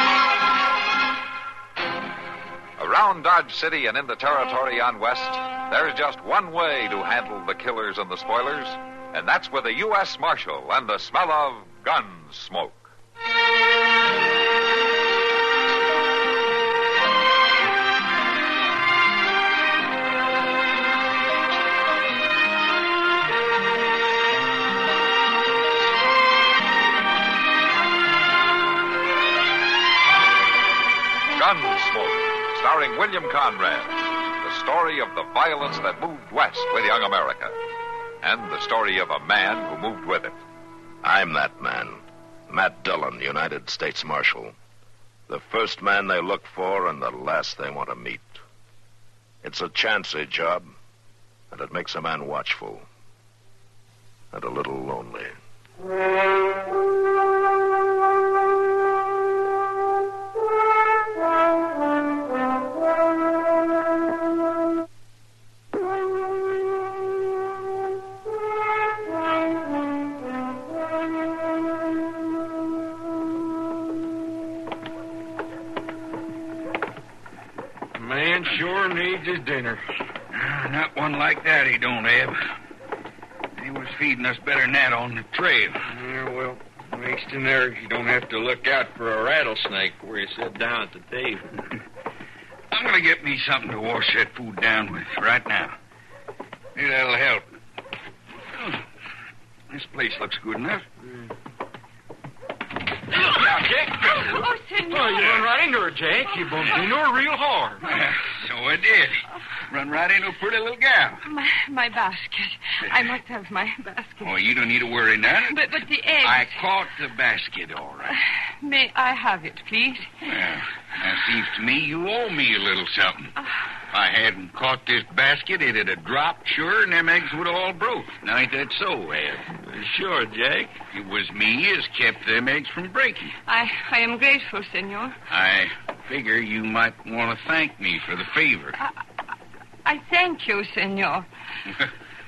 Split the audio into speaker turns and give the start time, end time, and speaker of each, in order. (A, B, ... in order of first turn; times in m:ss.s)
0:02.8-0:12.8 A
0:31.4-0:37.6 A
0:38.2-0:40.4 A
0:41.0-0:44.5 B
0:45.3-0:48.4 B
0:49.4-0:50.7 B
0:51.5-0:52.8 B
0:54.3-0:55.4 B
1:18.0-1:19.8 C
1:20.3-1:22.4 D
1:23.6-1:25.8 D
1:25.9-1:31.4 C
1:32.7-1:35.8 D
1:36.8-1:37.4 D
1:39.7-1:40.8 D
1:43.3-1:47.9 C
1:44.3-1:45.4 E
1:46.3-1:46.8 E
1:47.8-1:51.2 D
1:51.2-1:54.4 E
1:54.2-1:58.2 D
1:55.5-1:56.7 E
1:58.6-2:00.1 E
2:00.2-2:03.3 D
2:03.9-2:09.5 D
2:09.6-2:10.7 C
2:10.9-2:13.3 D
2:13.5-2:15.2 E
2:15.3-2:18.8 D
2:19.8-2:21.3 E